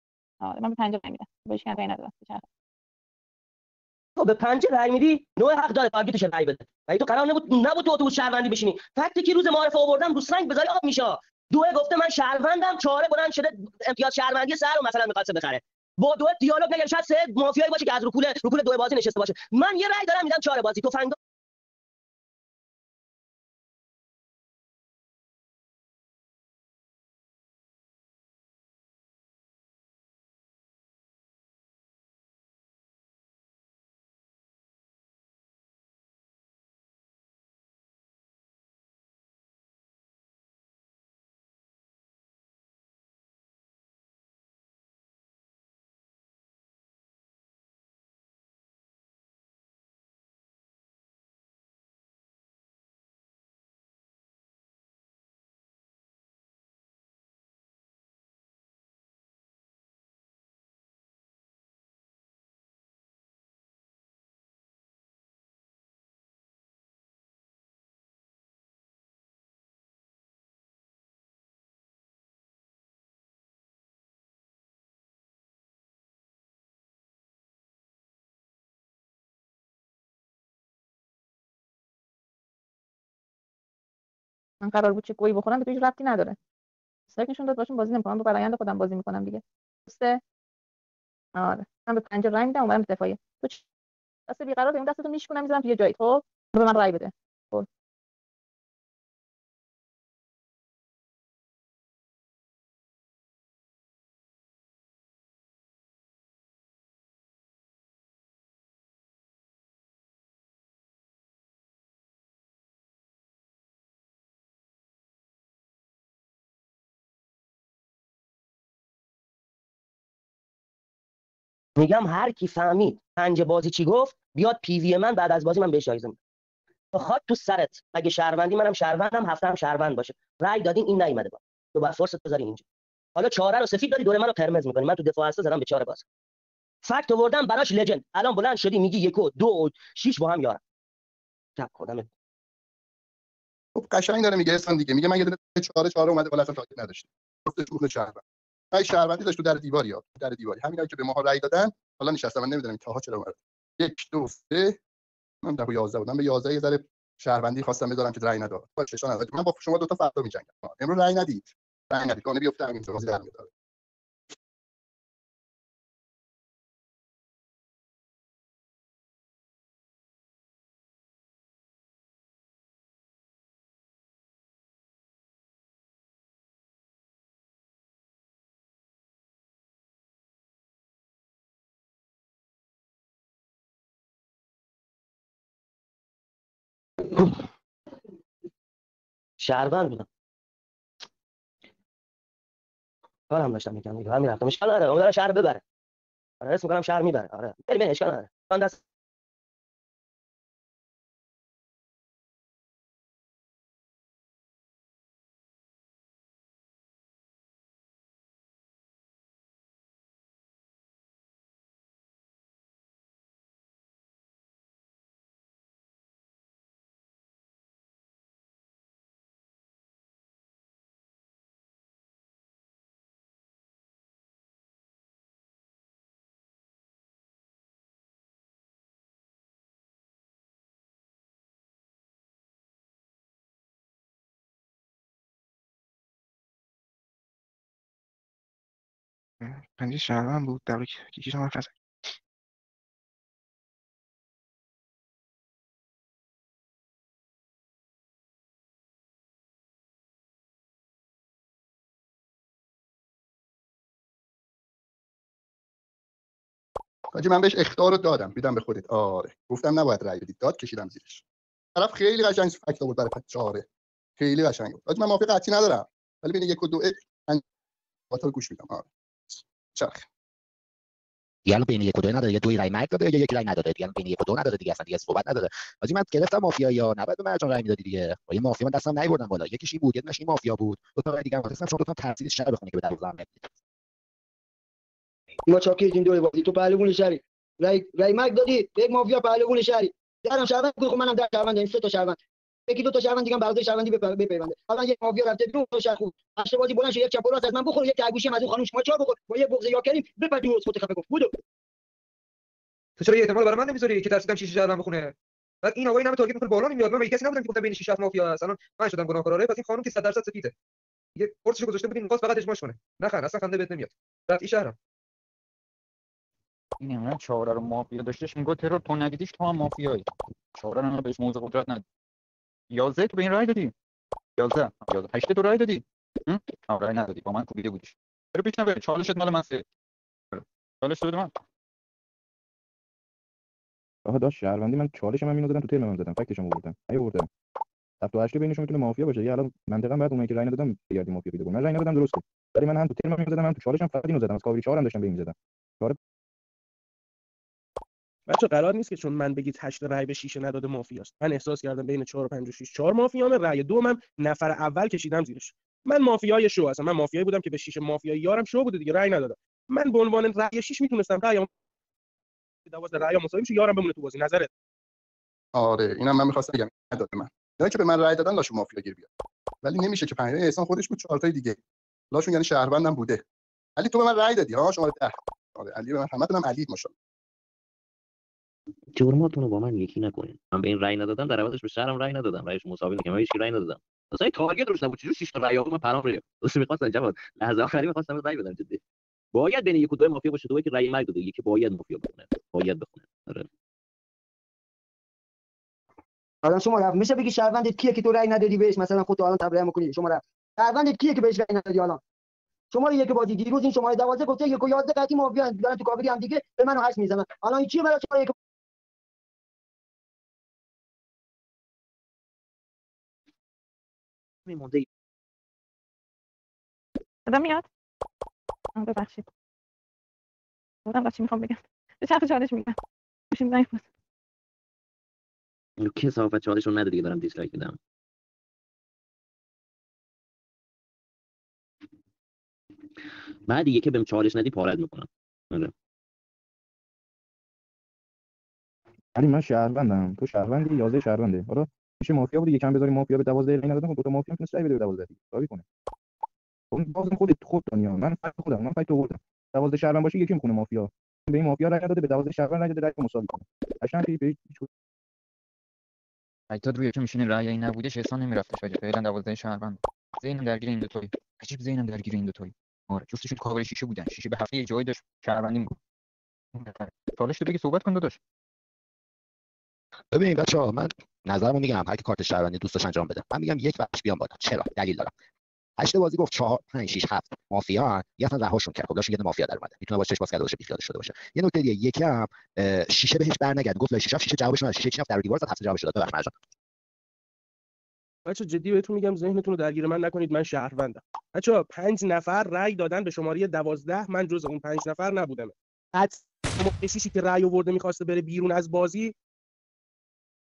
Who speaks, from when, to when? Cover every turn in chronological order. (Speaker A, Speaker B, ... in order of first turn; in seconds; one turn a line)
Speaker A: 0.4-2.4
Speaker B: 4.2-21.2
Speaker A: 84.6-86.3
Speaker A: 87.1-90.2
Speaker A: 91.4-93.6
Speaker A: 94.3-97.7
Speaker B: 121.8-126.2
Speaker B: 126.9-132.6
Speaker B: 133.1-136.0
Speaker B: 136.8-140.6
Speaker B: 141.6-142.1
Speaker C: 143.7-148.2
Speaker C: 148.7-154.8
Speaker C: 155.4-163.5
Speaker B: 187.1-187.4
Speaker B: 189.4-190.1
Speaker B: 193.3-195.6
Speaker B: 196.4-198.8
Speaker D: 239.4-241.8
Speaker C: 257.1-261.2
Speaker C: 261.8-263.6
Speaker C: 264.2-267.4
Speaker C: 268.1-270.1
Speaker E: 271.4-283.5
Speaker F: 285.5-292.2
Speaker F: 292.7-301.3
Speaker G: 303.0-310.5
Speaker G: 311.1-314.8
Speaker H: 316.8-320.0
Speaker H: 320.6-321.8
Speaker H: 322.7-323.7
Speaker H: 324.4-329.6
Speaker H: 330.3-331.3
Speaker I: 334.0-337.3
Speaker I: 338.0-346.0
Speaker J: 348.3-361.5
Speaker J: 362.7-364.5
Speaker C: 365.5-369.1
Speaker C: 369.6-371.6
Speaker C: 372.1-373.2
Speaker C: 373.8-376.9
Speaker K: 378.9-388.8
Speaker K: 389.3-393.5
Speaker F: 396.4-402.0
Speaker F: 402.7-408.3
Speaker K: 414.5-414.9
Speaker A: 417.3-417.6
Speaker A: 418.8-419.2
Speaker A: 420.9-422.8
Speaker A: 423.3-423.8
Speaker K: 425.8-427.8
Speaker K: 433.4-435.7
Speaker I: 439.1-445.6
Speaker I: 446.7-454.7
Speaker H: 456.5-465.8
Speaker H: 466.5-468.2
Speaker E: 470.1-475.1
Speaker E: 475.8-486.4
Speaker J: 488.2-499.1